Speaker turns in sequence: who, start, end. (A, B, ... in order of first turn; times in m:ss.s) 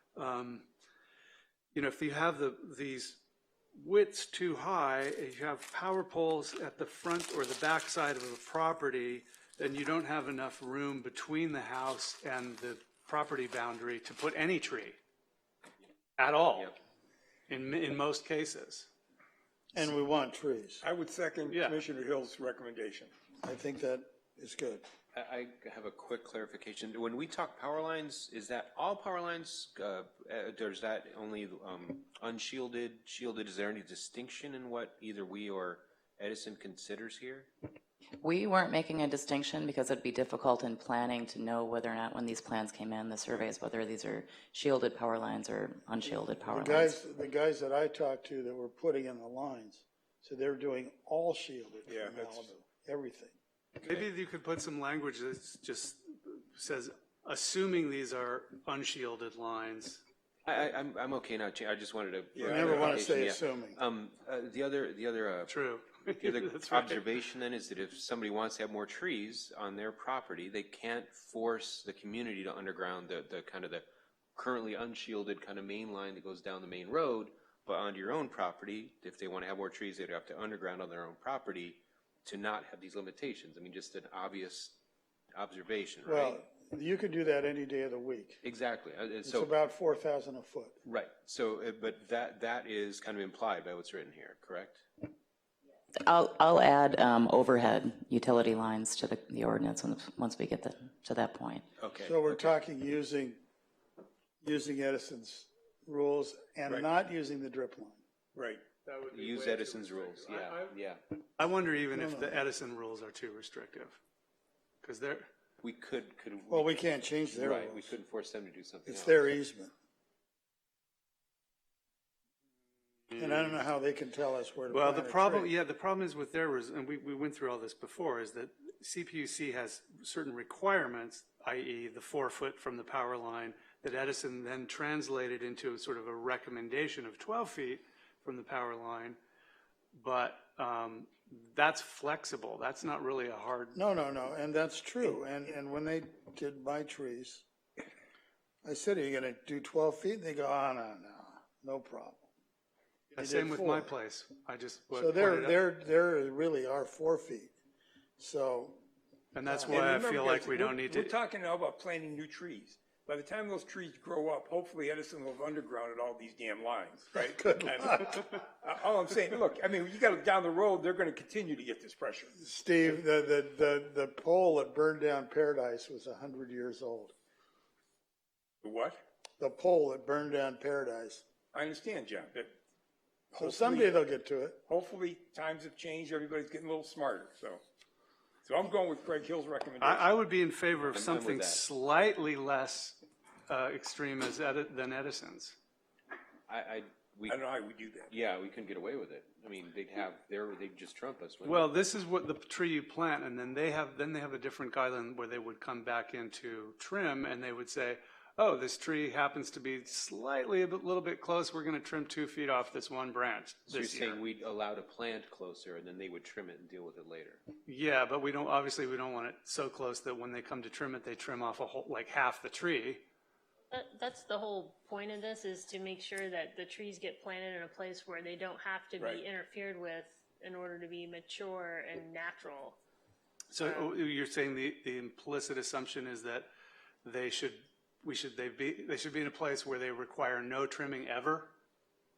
0:00.2-0:00.7 A
0:01.7-0:03.2 A
0:03.7-0:15.0 A
0:16.2-0:16.7 A
0:17.5-0:18.9 A
0:19.7-0:20.8 B
0:20.8-0:23.1 C
0:21.5-0:21.8 A
0:23.4-0:24.8 B
0:25.1-0:37.5 D
0:38.2-0:46.9 E
0:46.0-0:53.4 B
0:51.9-0:52.5 C
0:53.8-1:00.0 A
1:00.4-1:05.5 D
1:02.3-1:03.0 C
1:02.4-1:03.8 B
1:05.5-1:07.0 A
1:06.2-1:24.8 D
1:25.3-1:26.4 D
1:26.0-1:28.4 B
1:28.4-1:29.5 D
1:29.2-1:30.8 B
1:30.8-1:34.9 D
1:36.1-1:41.6 E
1:41.8-1:42.5 D
1:42.0-1:43.4 B
1:44.4-1:48.0 B
1:48.3-1:48.6 C
1:48.8-1:50.8 A
1:49.1-1:51.0 D
1:51.4-1:54.0 A
1:51.9-1:52.4 B
1:54.8-1:55.3 A
1:55.6-1:59.3 D
1:56.5-1:58.0 B
1:58.8-1:59.7 B
2:03.1-2:03.6 A
2:03.2-2:05.5 B
2:04.7-2:19.2 A
2:19.9-2:23.8 A
2:23.7-2:27.4 B
2:28.6-2:32.3 B
2:33.1-2:35.6 A
2:33.2-2:33.9 B
2:34.9-2:37.5 B
2:38.2-2:38.8 B
2:39.3-2:41.1 A
2:39.4-2:40.1 B
2:39.7-2:52.3 C
2:52.4-2:57.1 B
2:58.6-2:59.0 C
2:59.4-3:01.2 B
3:01.5-3:02.5 C
3:03.3-3:04.0 C
3:03.4-3:04.6 B
3:04.7-3:07.6 C
3:08.4-3:10.1 C
3:09.8-3:15.6 A
3:10.9-3:11.6 D
3:16.5-3:17.4 D
3:17.3-3:18.1 C
3:18.1-3:21.7 D
3:21.4-3:34.2 A
3:33.7-3:37.4 D
3:37.6-3:43.0 A
3:43.7-3:52.8 F
3:53.5-3:56.5 A
3:53.6-3:53.9 F
3:57.0-4:01.5 A